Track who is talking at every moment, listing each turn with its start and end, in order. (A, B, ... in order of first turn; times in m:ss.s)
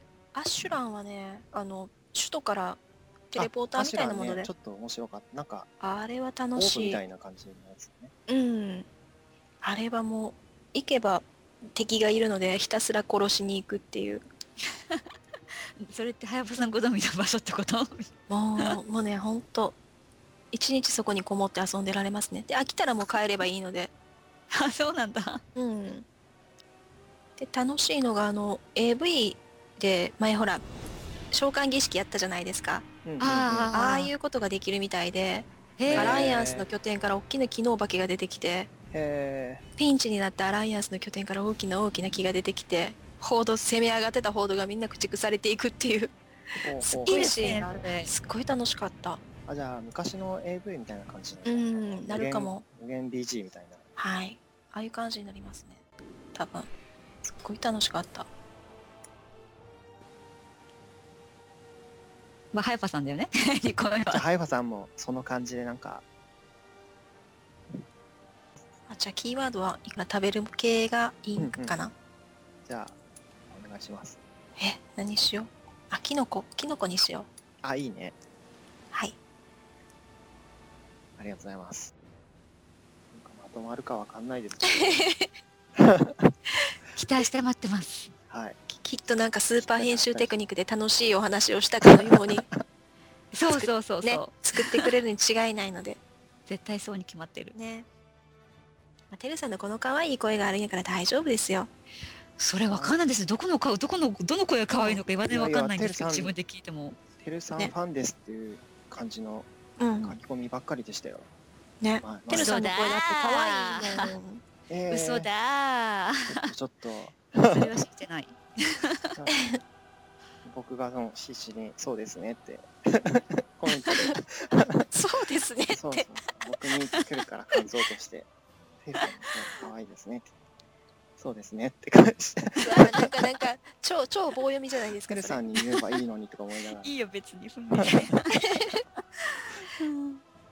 0:00.4-0:04.5 A
0:03.4-0:05.7 B
0:05.8-0:07.0 A
0:06.6-0:08.1 B
0:08.3-0:08.9 A
0:09.6-0:14.2 A
0:15.8-0:18.1 C
0:18.3-0:19.8 A
0:20.5-0:23.9 A
0:24.5-0:25.4 C
0:25.6-0:26.0 A
0:27.4-0:30.6 A
0:31.3-0:32.9 A
0:33.0-0:33.8 B
0:33.2-0:34.1 C
0:33.7-0:38.7 A
0:35.8-0:36.2 C
0:35.9-0:36.7 B
0:38.9-0:39.6 B
0:39.8-0:46.1 A
0:46.6-0:47.6 B
0:46.8-0:49.2 A
0:47.1-0:48.1 C
0:49.5-0:53.8 B
0:51.4-0:52.6 A
0:54.0-0:55.8 A
0:56.3-0:56.7 A
0:57.3-0:58.3 A
1:02.5-1:04.2 C
1:04.1-1:06.0 B
1:08.9-1:11.9 A
1:11.4-1:11.8 B
1:12.7-1:13.0 B
1:13.5-1:14.2 B
1:14.6-1:17.3 A
1:17.6-1:18.2 B
1:21.2-1:21.9 B
1:23.1-1:25.0 B
1:24.6-1:25.3 A
1:25.8-1:26.3 B
1:26.9-1:28.1 C
1:28.3-1:28.6 B
1:28.7-1:32.5 A
1:29.6-1:30.4 B
1:32.1-1:32.4 B
1:33.3-1:34.9 C
1:33.6-1:36.0 A
1:36.5-1:37.6 C
1:37.5-1:37.9 A
1:39.1-1:41.7 A
1:42.4-1:47.0 C
1:42.7-1:43.0 B
1:44.7-1:45.0 A
1:45.3-1:46.4 B
1:47.2-1:49.5 B
1:49.8-1:50.2 A
1:50.0-1:51.3 B
1:51.8-1:54.4 A
1:52.0-1:52.6 B
1:52.3-1:54.1 C
1:54.7-1:55.3 B
1:54.9-1:56.4 C
1:56.3-1:57.7 B
1:57.5-1:59.2 C
1:59.3-1:59.6 A
2:00.4-2:04.9 B
2:04.9-2:06.1 A
2:05.7-2:08.3 B
2:08.8-2:10.3 B
2:11.2-2:13.1 B
2:12.6-2:15.4 A
2:15.1-2:17.0 B
2:15.6-2:16.0 C
2:16.8-2:18.4 C
2:17.8-2:18.1 B
2:18.3-2:18.8 A
2:19.3-2:20.2 C